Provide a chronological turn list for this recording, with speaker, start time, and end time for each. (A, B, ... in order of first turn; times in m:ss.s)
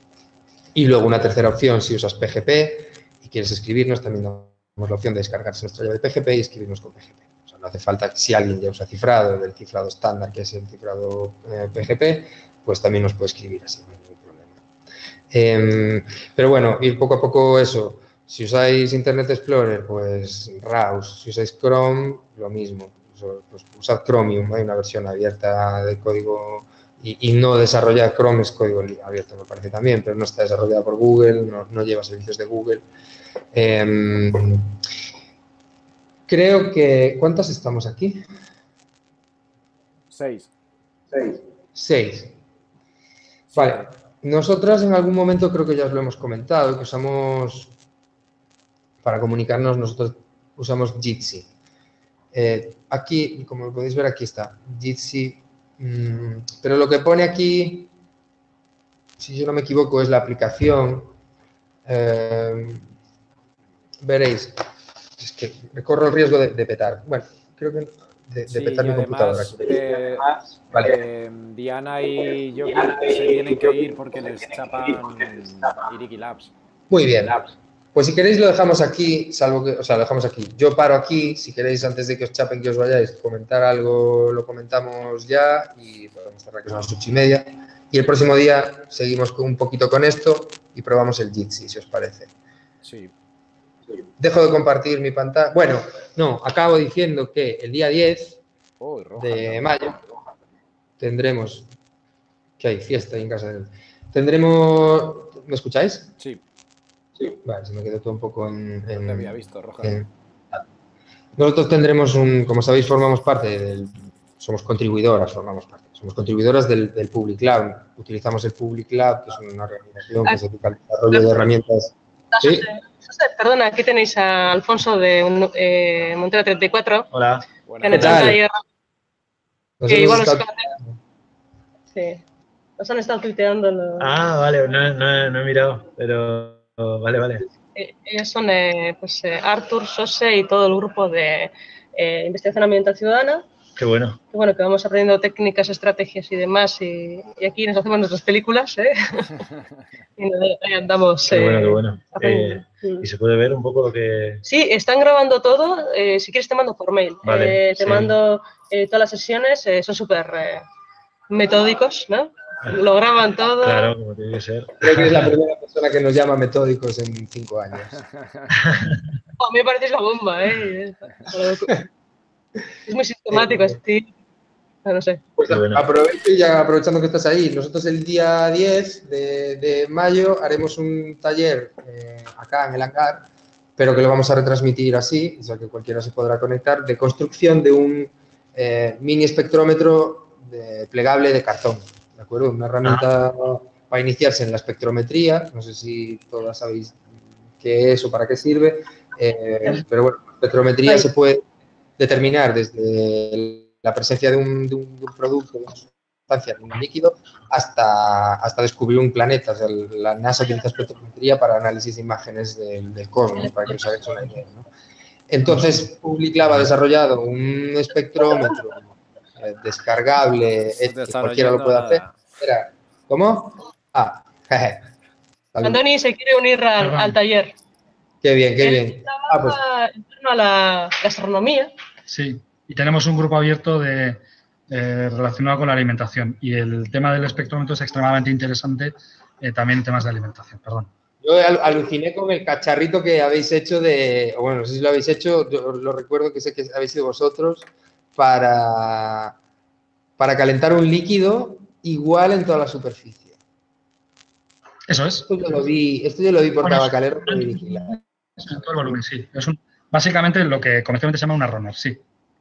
0:00.7-0:14.6 A
0:15.3-0:32.8 A
0:33.5-0:34.8 A
0:36.3-0:38.2 A
0:40.1-0:40.5 B
0:41.1-0:42.4 A
0:43.5-0:43.9 B
0:43.5-0:47.7 A
0:49.0-0:51.5 A
0:52.3-0:57.9 A
0:59.2-1:01.1 A
1:01.8-1:02.9 A
1:04.0-1:04.6 A
1:05.2-1:11.0 A
1:08.5-1:16.5 B
1:16.9-1:32.3 A
1:32.8-1:33.1 B
1:34.2-1:38.4 A
1:38.8-1:39.8 B
1:39.2-1:40.1 A
1:41.0-1:41.7 A
1:42.6-1:46.1 A
1:47.2-1:50.6 A
1:48.9-1:50.0 B
1:51.4-2:02.7 A
2:02.3-2:07.1 C
2:07.1-2:07.4 D
2:07.7-2:08.2 B
2:07.8-2:08.6 C
2:07.9-2:08.4 A
2:09.8-2:10.4 A
2:09.9-2:10.7 C
2:11.9-2:12.2 C
2:12.8-2:14.1 C
2:14.0-2:17.5 D
2:17.7-2:23.4 C
2:23.8-2:24.2 D
2:24.3-2:29.4 C
2:30.2-2:33.0 C
2:31.3-2:34.4 D
2:34.4-2:40.6 C
2:37.2-2:38.2 D
2:41.3-2:43.9 C
2:43.6-2:45.3 D
2:44.8-2:48.0 A
2:48.0-2:48.4 B
2:49.4-2:51.8 C
2:52.8-2:54.1 C
2:53.3-2:53.8 A
2:54.8-2:55.2 C
2:55.4-3:17.0 A
2:55.4-2:55.8 D
3:17.6-3:21.4 A
3:22.0-3:34.7 A
3:35.3-3:44.8 A
3:40.7-3:42.2 B
3:45.5-3:45.8 A
3:45.6-3:47.5 C
3:46.8-3:47.2 E
3:48.2-3:49.6 A
3:48.6-3:51.7 C
3:52.1-4:00.9 E
4:01.2-4:09.4 A
4:10.2-4:13.4 A
4:14.9-4:15.3 E
4:15.2-4:18.0 A
4:16.6-4:22.0 E